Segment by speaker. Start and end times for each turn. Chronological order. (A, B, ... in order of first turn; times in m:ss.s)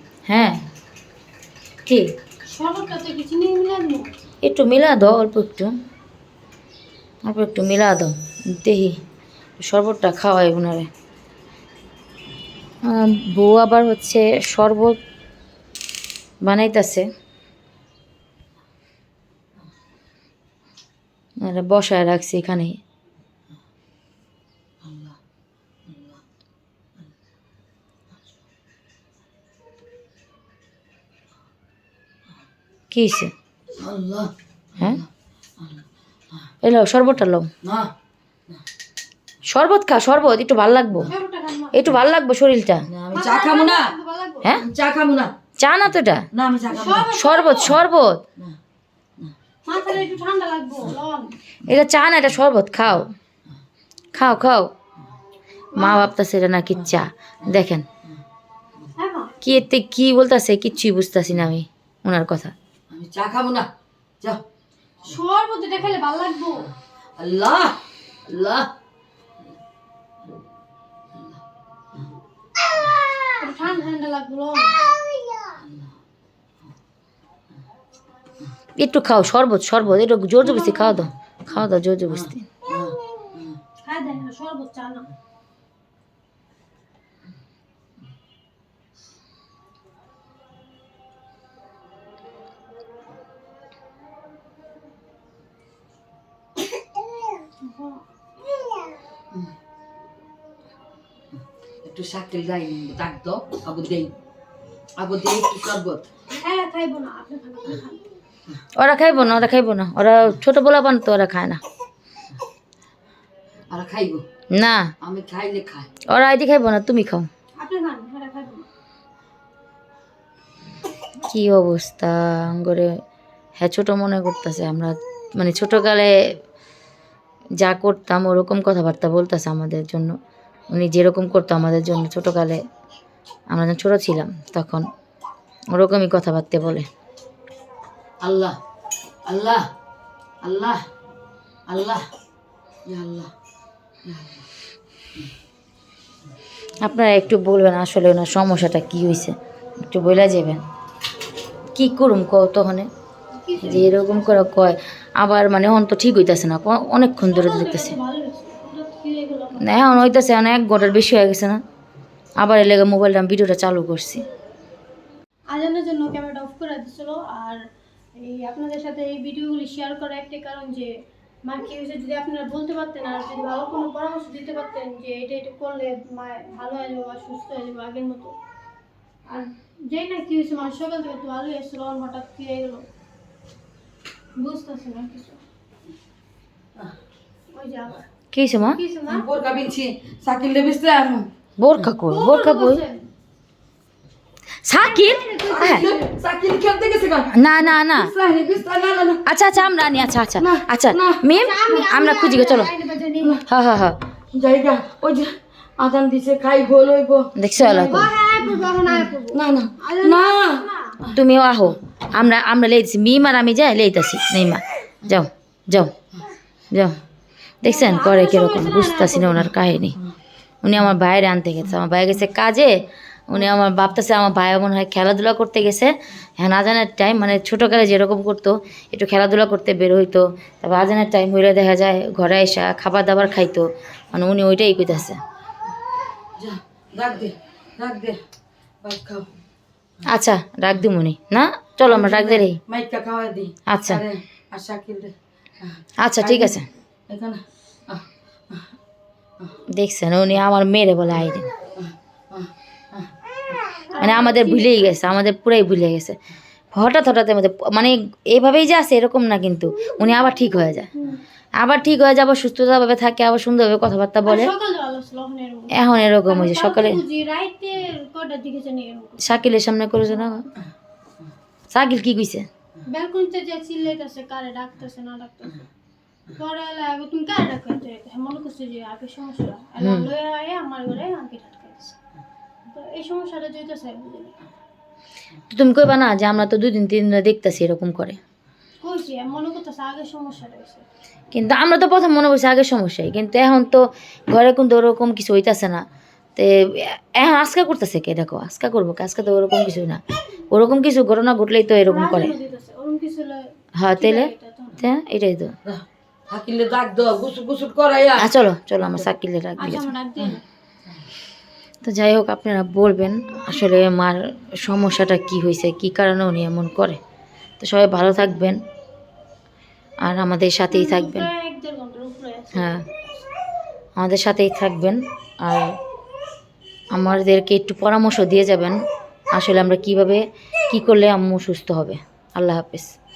0:00.3-0:00.6 A
0:01.9-0:02.1 A
0:02.5-0:04.1 B
0:04.4-0:05.8 A
0:07.2-0:09.0 A
0:09.6-0:10.9 A
0:12.8-0:15.0 A
0:16.4-0:17.1 A
0:21.4-0:22.8 A
0:24.9-0:25.1 C
0:32.9-0:33.3 A
0:33.8-0:35.0 C
0:36.6-0:37.5 A
0:37.6-0:37.9 C
0:39.5-0:41.1 A
0:41.1-0:41.9 B
0:41.7-0:42.8 A
0:42.9-0:43.9 C
0:43.1-0:44.5 B
0:44.6-0:45.3 C
0:45.6-0:46.2 A
0:46.3-0:47.1 C
0:46.7-0:47.8 B
0:47.0-0:48.2 A
0:49.7-0:51.3 B
0:51.7-0:53.1 A
0:54.2-0:54.7 A
0:55.7-0:56.1 B
0:55.8-0:57.9 A
0:59.0-0:59.3 B
0:59.4-1:02.5 A
1:02.9-1:03.7 C
1:05.0-1:06.7 B
1:07.2-1:08.7 C
1:13.4-1:14.8 B
1:18.8-1:22.5 A
1:20.4-1:21.1 B
1:22.1-1:23.6 C
1:23.8-1:25.1 B
1:37.6-1:38.0 B
1:41.8-1:44.1 C
1:45.0-1:46.1 C
1:46.3-1:48.0 B
1:48.8-1:51.6 A
1:53.7-1:54.2 C
1:54.5-1:54.9 A
1:55.0-1:55.9 C
1:56.1-1:57.3 A
1:57.6-1:58.6 B
2:01.3-2:03.0 A
2:03.6-2:06.4 A
2:07.6-2:10.2 A
2:10.7-2:12.6 A
2:13.5-2:14.9 A
2:15.7-2:16.9 A
2:18.2-2:18.6 C
2:19.3-2:19.7 C
2:20.4-2:20.8 C
2:21.7-2:22.0 C
2:22.9-2:23.3 C
2:24.1-2:24.4 C
2:26.8-2:30.6 A
2:31.8-2:32.9 A
2:33.4-2:34.5 B
2:33.6-2:38.0 A
2:37.2-2:39.8 B
2:39.6-2:41.6 A
2:42.4-2:44.2 A
2:45.5-2:47.6 B
2:48.2-2:50.9 B
2:51.4-2:58.4 B
2:59.3-3:02.9 B
3:04.4-3:05.4 B
3:07.5-3:09.3 B
3:08.3-3:08.8 A
3:09.1-3:11.3 C
3:11.6-3:12.8 A
3:12.1-3:13.0 B
3:14.6-3:15.9 A
3:14.8-3:16.0 B
3:15.4-3:19.3 C
3:17.3-3:18.1 A
3:19.3-3:22.7 A
3:20.4-3:21.3 C
3:21.3-3:23.4 B
3:23.5-3:24.0 A
3:24.3-3:31.1 C
3:27.4-3:28.1 A
3:27.6-3:31.0 B
3:31.1-3:35.9 A
3:36.7-3:37.0 A
3:37.6-3:40.0 A
3:37.6-3:39.5 B
3:40.6-3:55.2 A
3:56.4-3:58.2 C
3:58.8-3:59.3 C
4:00.1-4:02.6 A
4:01.9-4:08.6 C
4:03.7-4:04.0 A
4:06.0-4:06.7 A
4:09.7-4:11.5 A
4:11.8-4:13.1 C
4:13.9-4:14.8 B
4:14.0-4:16.2 A
4:16.7-4:20.9 A
4:21.6-4:24.5 A
4:24.2-4:29.3 B
4:25.7-4:27.0 A
4:29.2-4:30.5 A
4:31.7-4:32.5 A
4:32.8-4:35.7 B
4:36.4-4:42.0 B
4:39.8-4:40.1 A
4:42.7-4:44.4 B
4:45.5-4:48.2 A
4:48.8-4:50.9 B
4:51.3-4:55.8 A
4:56.4-5:02.4 A
5:01.9-5:04.8 B
5:03.8-5:05.6 A
5:05.7-5:08.3 C
5:08.2-5:09.9 A
5:09.6-5:10.4 B
5:11.8-5:17.0 A
5:17.6-5:18.6 A
5:20.0-5:21.3 A
5:20.7-5:23.3 B
5:22.5-5:22.8 A
5:24.0-5:25.8 A
5:26.9-5:28.8 A
5:29.3-5:32.9 A